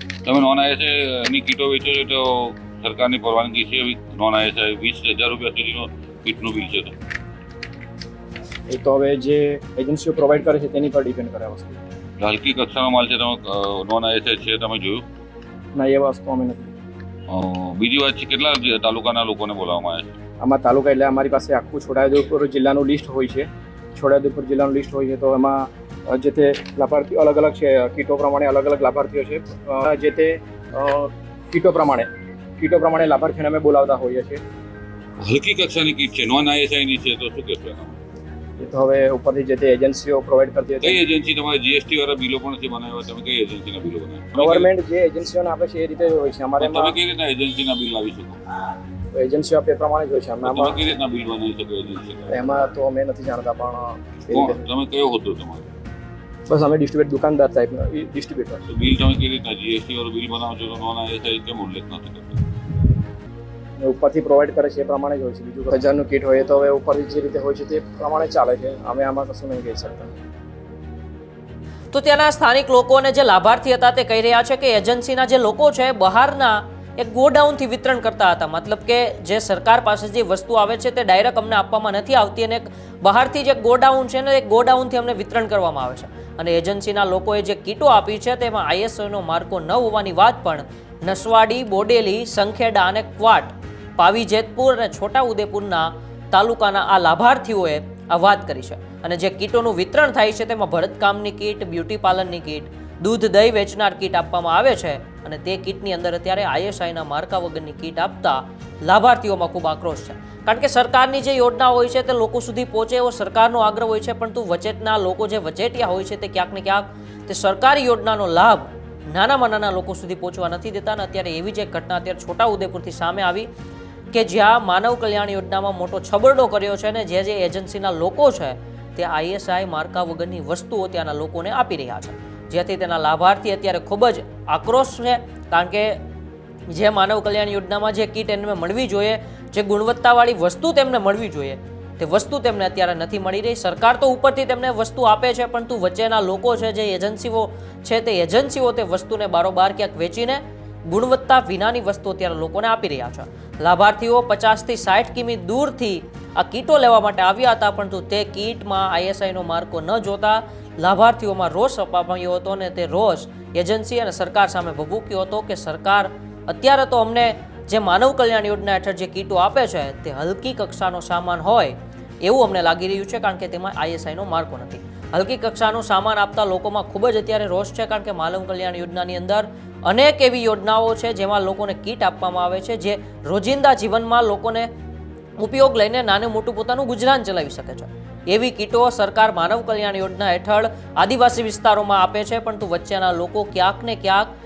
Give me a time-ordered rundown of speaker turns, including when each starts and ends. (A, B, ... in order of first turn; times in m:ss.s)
0:00.2-0:07.0 A
0:08.7-0:11.8 B
0:12.2-0:15.0 A
0:15.8-0:16.7 B
0:17.3-0:20.1 A
0:20.4-0:34.4 B
0:35.2-0:38.0 A
0:38.6-0:41.0 B
0:40.8-0:44.7 A
0:44.4-0:47.0 B
0:46.6-0:48.4 A
0:49.2-0:50.9 B
0:50.4-0:52.3 A
0:52.3-0:54.6 B
0:54.3-0:55.7 A
0:56.5-0:58.6 B
0:58.7-1:02.4 A
1:03.8-1:10.1 B
1:11.9-2:03.5 C
2:04.1-2:16.0 C
2:16.7-3:04.7 C
3:05.4-3:14.3 C